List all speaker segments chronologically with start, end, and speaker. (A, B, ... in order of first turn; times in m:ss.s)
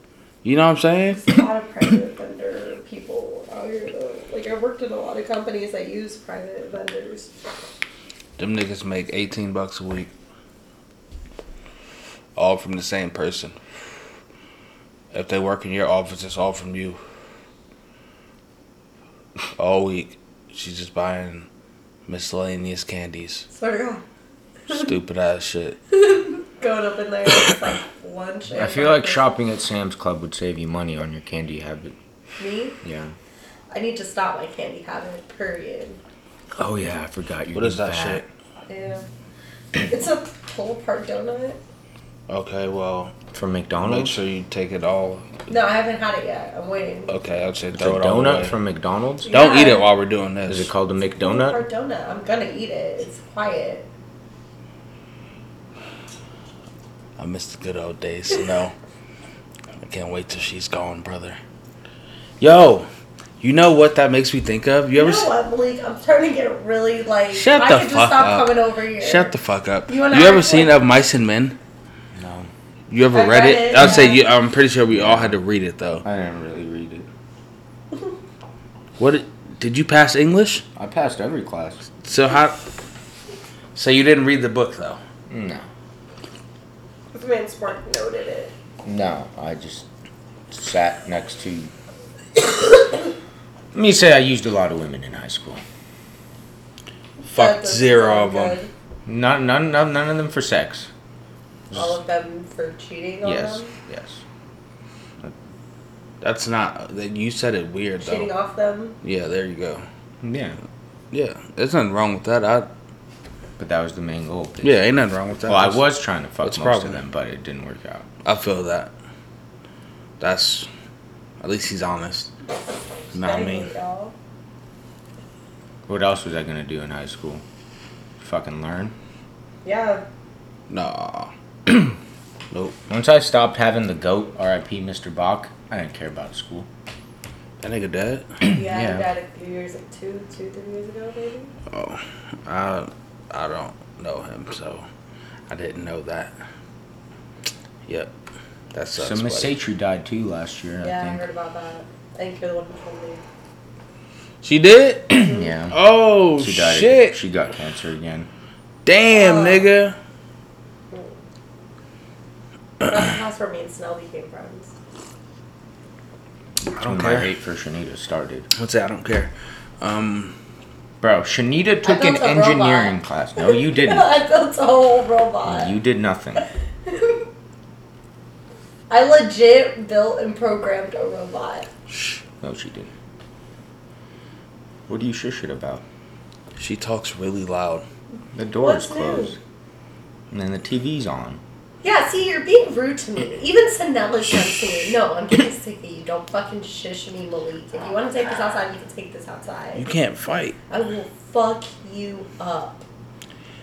0:00.4-0:01.3 A
0:01.1-0:07.3 B
0:08.4-0:10.1 A
0:12.4-0:13.6 A
0:15.1-0:17.0 A
0:19.6-0:21.5 A
0:22.1-0:23.5 A
0:23.5-0:24.0 B
0:24.7-0:25.8 A
0:25.9-0:29.2 B
0:28.5-0:31.9 C
0:32.4-0:32.8 B
0:32.8-0:33.1 C
0:33.7-0:36.0 B
0:36.6-0:38.2 C
0:37.5-0:38.3 A
0:38.7-0:39.0 B
0:39.8-0:41.6 B
0:42.3-0:43.1 A
0:43.3-0:44.2 C
0:43.8-0:45.4 A
0:45.5-0:47.1 B
0:47.1-0:48.6 A
0:47.7-0:49.3 C
0:49.2-0:49.9 B
0:49.3-0:50.7 A
0:50.5-0:51.6 C
0:51.1-0:53.9 B
0:57.2-0:58.7 A
0:59.8-1:01.4 A
1:02.4-1:02.9 A
1:03.4-1:05.3 A
1:04.9-1:09.3 B
1:07.3-1:11.6 A
1:09.9-1:10.8 B
1:12.1-1:12.5 C
1:12.9-1:16.0 A
1:13.1-1:14.3 B
1:14.9-1:15.4 C
1:16.0-1:17.1 C
1:19.0-1:20.6 A
1:20.8-1:21.9 C
1:22.0-1:22.6 A
1:23.7-1:25.0 A
1:25.3-1:25.6 C
1:27.1-1:28.5 B
1:28.8-1:29.8 C
1:30.5-1:31.7 C
1:33.7-1:35.6 C
1:37.2-1:38.7 B
1:37.3-1:38.6 A
1:39.0-1:40.9 C
1:41.7-1:43.7 B
1:43.2-1:44.2 C
1:46.2-1:48.3 A
1:48.0-1:49.0 B
1:49.0-1:49.8 A
1:50.2-1:50.6 C
1:51.1-1:52.7 A
1:53.6-1:54.8 C
1:54.6-1:55.8 A
1:55.4-1:58.0 C
1:56.4-1:57.0 A
1:58.2-1:58.9 A
2:00.2-2:00.7 A
2:01.4-2:02.3 A
2:03.1-2:03.7 A
2:03.2-2:04.1 B
2:05.9-2:07.4 C
2:08.2-2:08.9 C
2:09.6-2:10.0 B
2:10.7-2:12.0 A
2:12.9-2:16.7 C
2:17.6-2:18.3 A
2:18.4-2:19.1 C
2:18.5-2:21.5 B
2:21.7-2:24.8 A
2:25.5-2:26.4 A
2:27.9-2:28.1 A
2:28.7-2:29.5 A
2:29.0-2:31.2 C
2:30.8-2:33.2 B
2:34.4-2:37.2 A
2:35.2-2:35.8 C
2:35.2-2:35.5 B
2:36.4-2:38.3 C
2:38.8-2:40.0 A
2:39.1-2:39.7 B
2:42.8-2:44.7 B
2:46.7-2:47.3 A
2:46.8-2:48.5 C
2:48.5-2:50.4 A
2:51.0-2:54.1 C
2:51.8-2:55.7 B
2:55.4-2:56.4 C
2:56.4-2:57.2 B
2:58.9-3:01.7 B
3:01.9-3:02.2 A
3:02.4-3:02.9 C
3:04.9-3:05.8 C
3:06.6-3:07.8 A
3:08.3-3:09.4 C
3:08.6-3:09.4 B
3:10.3-3:11.4 C
3:11.8-3:19.8 B
3:19.7-3:20.6 A
3:20.7-3:22.8 B